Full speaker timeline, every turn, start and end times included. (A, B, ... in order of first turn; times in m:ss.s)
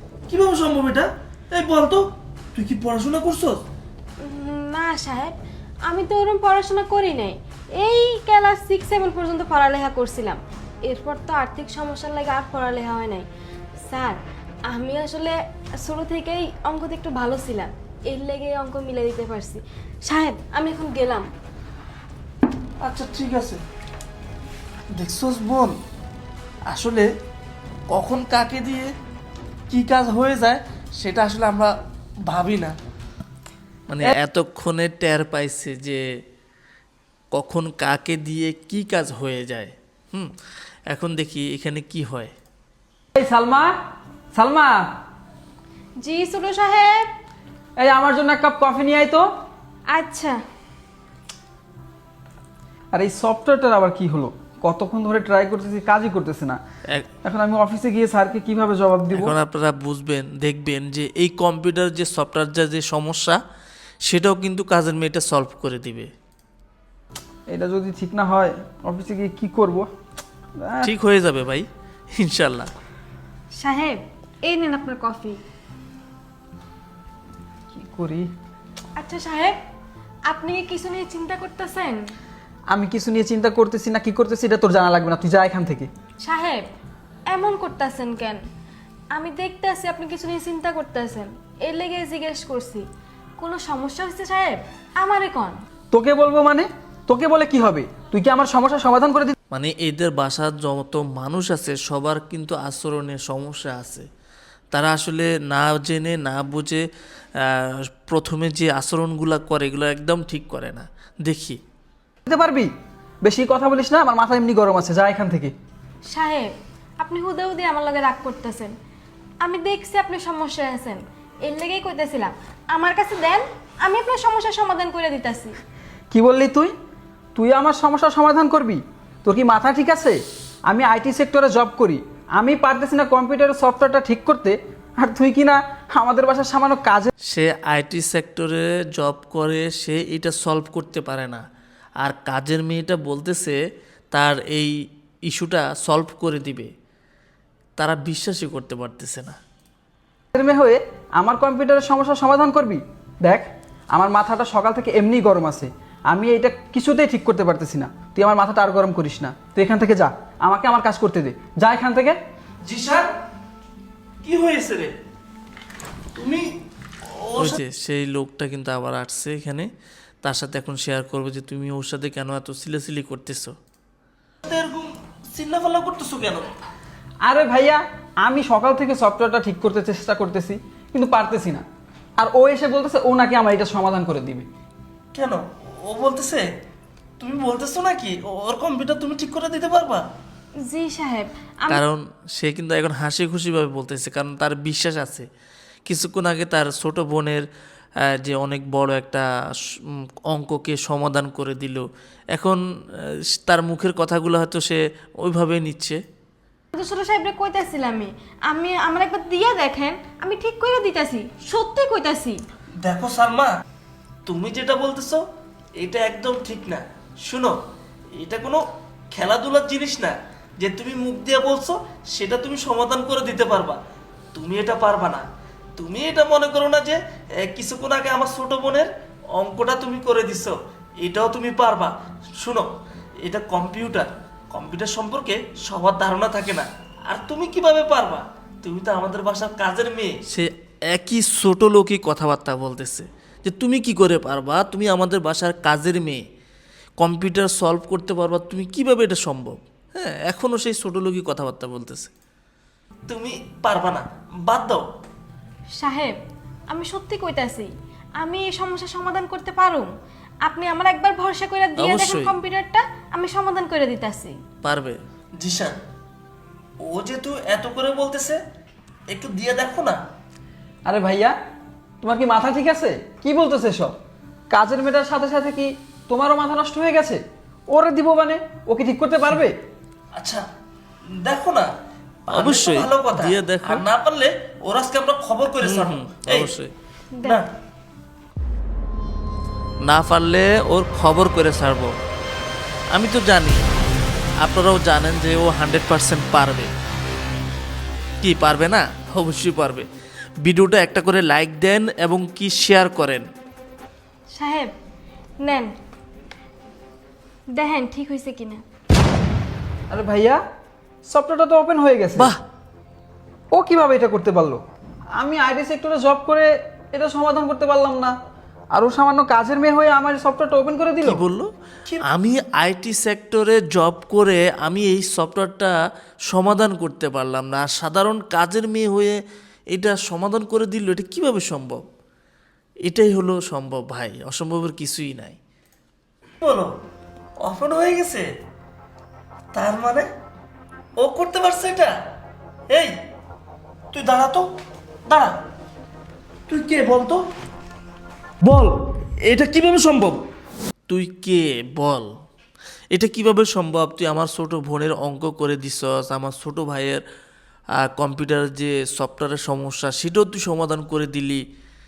0:00.3-0:02.0 A
0:02.5-0:03.6 A
0:04.2-0:05.3 B
0:05.8-0:13.2 B
0:13.8-0:21.3 B
0:22.8-0:23.6 A
0:25.0-0:25.8 A
0:26.7-0:27.1 A
0:27.9-0:28.9 A
0:29.7-0:31.7 A
0:32.3-0:32.8 A
0:33.9-0:36.0 C
0:37.3-0:40.3 C
0:40.9-0:42.3 C
0:43.1-0:43.7 D
0:44.3-0:44.8 D
0:46.0-0:47.0 B
0:47.8-0:49.2 D
0:49.9-0:50.4 B
0:52.9-0:56.6 D
0:57.2-0:59.3 D
0:59.2-1:03.4 C
1:04.0-1:06.1 C
1:07.5-1:09.9 D
1:10.6-1:10.9 D
1:10.8-1:11.6 C
1:12.2-1:12.7 C
1:13.6-1:15.4 B
1:17.7-1:18.2 D
1:19.0-1:19.6 B
1:20.3-1:22.0 B
1:22.7-1:25.9 D
1:26.2-1:26.6 B
1:27.3-1:28.4 B
1:29.1-1:32.8 B
1:33.4-1:35.6 B
1:35.9-1:39.3 D
1:39.5-1:44.0 C
1:44.7-1:46.8 C
1:47.4-1:51.6 C
1:52.2-1:52.7 D
1:53.2-1:55.5 D
1:56.1-1:58.7 B
1:59.4-2:05.5 B
2:06.1-2:06.7 D
2:07.4-2:10.2 D
2:10.7-2:17.1 D
2:17.3-2:21.4 C
2:22.0-2:23.6 C
2:24.1-2:24.7 C
2:25.3-2:26.7 C
2:27.8-2:29.4 C
2:30.3-2:42.2 D
2:42.6-2:43.1 A
2:44.2-2:44.9 A
2:46.2-2:46.4 A
2:47.2-2:47.6 A
2:47.4-2:49.7 C
2:50.2-2:53.5 C
2:54.4-2:56.5 A
2:57.2-3:01.6 D
3:02.2-3:04.4 D
3:05.1-3:06.4 A
3:07.2-3:10.0 A
3:10.6-3:11.8 B
3:11.7-3:15.2 C
3:15.8-3:17.4 C
3:18.1-3:19.3 C
3:20.3-3:22.6 C
3:23.4-3:26.0 C
3:26.7-3:32.4 B
3:32.8-3:33.5 A
3:34.3-3:35.2 A
3:35.8-3:37.6 A
3:38.2-3:43.8 A
3:44.3-3:52.7 A
3:53.2-4:00.2 A
4:00.3-4:06.2 C
4:07.0-4:12.1 C
4:13.1-4:14.8 A
4:15.8-4:16.1 B
4:16.7-4:19.9 B
4:20.4-4:24.4 B
4:21.8-4:22.3 C
4:24.6-4:25.0 C
4:25.4-4:25.8 A
4:26.8-4:28.4 A
4:29.1-4:30.0 A
4:30.8-4:31.3 D
4:32.0-4:33.9 D
4:34.5-4:39.5 D
4:40.2-4:40.4 A
4:41.1-4:41.7 A
4:42.3-4:46.5 A
4:42.3-4:43.9 C
4:45.6-4:46.7 C
4:47.1-4:47.4 B
4:49.8-4:51.9 C
4:52.9-4:53.6 C
4:54.4-4:56.7 C
4:58.2-4:59.9 C
5:00.4-5:03.3 C
5:04.3-5:04.7 B
5:05.4-5:05.7 B
5:07.5-5:08.6 B
5:09.9-5:10.4 D
5:11.1-5:12.3 D
5:13.5-5:14.6 D
5:15.2-5:18.1 D
5:18.7-5:21.2 D
5:21.0-5:21.5 C
5:22.1-5:25.7 C
5:26.3-5:29.2 C
5:29.7-5:31.8 C
5:32.8-5:35.4 C
5:36.4-5:36.7 A
5:37.4-5:38.3 A
5:39.5-5:40.1 A
5:41.0-5:41.9 A
5:43.9-5:44.4 A
5:45.1-5:45.3 A
5:46.5-5:47.2 A
5:48.4-5:48.7 A
5:49.3-5:50.2 A
5:50.9-5:52.1 C
5:52.9-5:57.0 C
5:57.8-6:01.4 C